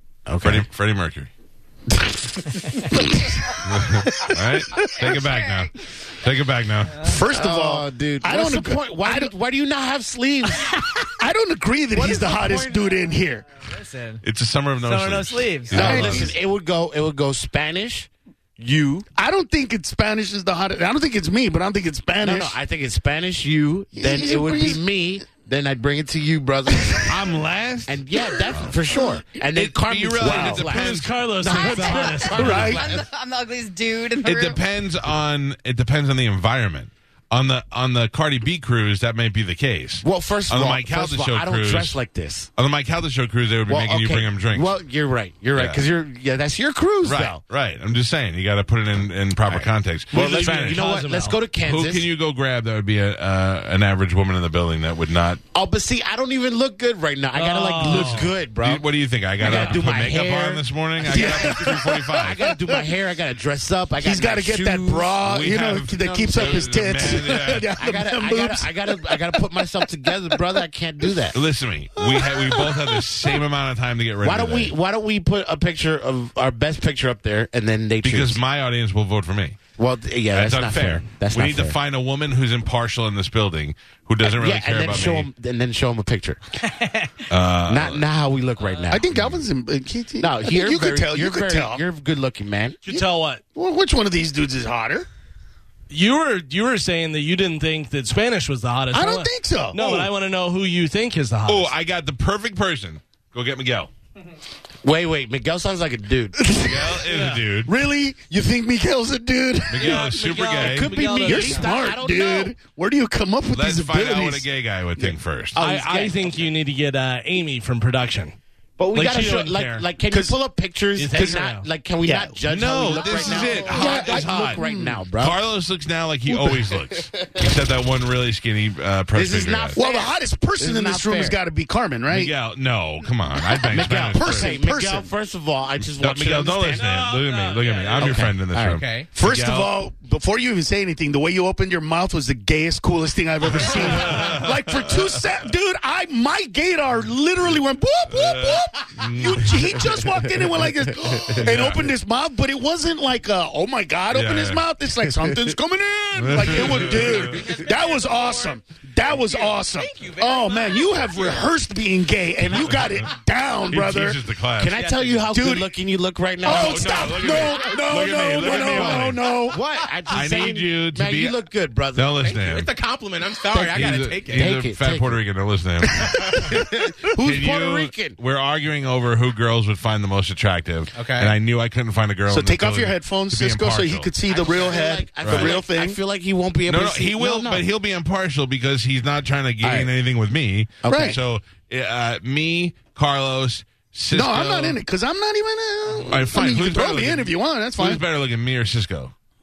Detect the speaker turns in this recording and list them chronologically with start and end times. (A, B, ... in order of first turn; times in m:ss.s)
0:00.2-0:00.7 A
0:00.4-0:01.3 B
0:02.0-0:03.4 A
0:03.6-0:07.1 B
0:05.0-0:05.7 C
0:07.0-0:09.3 D
0:07.3-0:10.8 A
0:11.2-0:13.4 D
0:11.9-0:14.2 E
0:14.2-0:16.3 B
0:14.8-0:16.0 E
0:15.7-0:19.0 A
0:15.7-0:16.3 D
0:19.1-0:22.5 D
0:22.2-0:27.2 A
0:23.9-0:24.8 D
0:27.0-0:28.0 B
0:27.8-0:33.0 A
0:29.5-0:31.1 B
0:30.2-0:32.9 F
0:31.9-0:34.6 C
0:32.3-0:32.8 D
0:34.2-0:42.0 B
0:40.0-0:42.5 A
0:42.6-0:44.7 B
0:43.7-0:47.4 A
0:45.5-0:45.8 B
0:47.0-0:50.9 B
0:49.5-0:52.1 A
0:50.1-0:51.4 F
0:51.6-0:55.4 B
0:55.5-0:58.8 A
0:57.3-0:58.3 F
0:57.9-1:02.4 B
0:59.4-1:05.2 A
1:01.0-1:02.8 D
1:04.0-1:09.4 D
1:05.2-1:07.7 B
1:06.0-1:07.2 A
1:07.8-1:11.4 A
1:11.3-1:14.7 B
1:12.0-1:13.0 D
1:14.2-1:18.4 A
1:18.0-1:19.6 B
1:19.8-1:21.8 A
1:20.3-1:25.3 B
1:24.2-1:26.4 A
1:27.3-1:28.0 B
1:27.7-1:29.1 A
1:28.9-1:31.8 D
1:29.1-1:29.4 B
1:30.2-1:32.8 A
1:32.8-1:33.4 F
1:32.9-1:35.1 D
1:35.9-1:41.7 F
1:38.9-1:40.1 D
1:41.5-1:43.9 B
1:44.8-1:46.5 A
1:46.4-1:46.9 D
1:46.6-1:47.7 B
1:47.1-1:47.5 F
1:47.6-1:50.2 D
1:49.7-1:51.0 B
1:49.8-1:51.7 F
1:50.1-1:52.5 A
1:51.2-1:54.4 D
1:53.5-1:55.6 B
1:55.0-1:56.2 A
1:55.5-1:58.4 F
1:58.8-2:05.4 A
1:58.9-1:59.9 F
2:00.1-2:00.4 D
2:01.0-2:01.6 F
2:01.2-2:01.4 D
2:02.0-2:02.4 D
2:02.5-2:04.6 B
2:02.9-2:05.0 D
2:03.0-2:03.8 C
2:05.2-2:09.8 B
2:06.4-2:07.5 A
2:09.1-2:11.4 A
2:09.7-2:12.3 D
2:12.1-2:14.6 B
2:13.7-2:17.0 A
2:14.1-2:15.1 D
2:16.0-2:19.7 B
2:17.1-2:19.1 G
2:18.0-2:18.8 A
2:19.1-2:44.2 D
2:23.4-2:25.2 B
2:28.1-2:30.1 B
2:31.0-2:31.5 A
2:31.4-2:31.9 B
2:34.1-2:34.6 B
2:36.2-2:37.5 B
2:37.0-2:41.5 G
2:42.4-2:44.8 B
2:44.6-2:52.3 A
2:44.7-2:45.3 G
2:45.3-2:45.7 D
2:46.4-2:49.6 D
2:46.4-2:49.4 B
2:49.6-2:49.9 G
2:50.1-2:51.4 B
2:51.9-2:52.7 B
2:52.2-2:54.5 G
2:53.5-2:55.2 A
2:53.7-2:56.2 B
2:55.9-2:56.7 D
2:56.4-2:58.2 A
2:57.2-3:04.1 B
3:00.9-3:01.3 G
3:02.3-3:06.0 D
3:04.3-3:07.6 A
3:05.2-3:05.6 B
3:06.7-3:14.8 B
3:09.6-3:09.9 A
3:10.8-3:11.2 A
3:10.9-3:11.2 D
3:14.1-3:18.0 D
3:16.1-3:19.1 B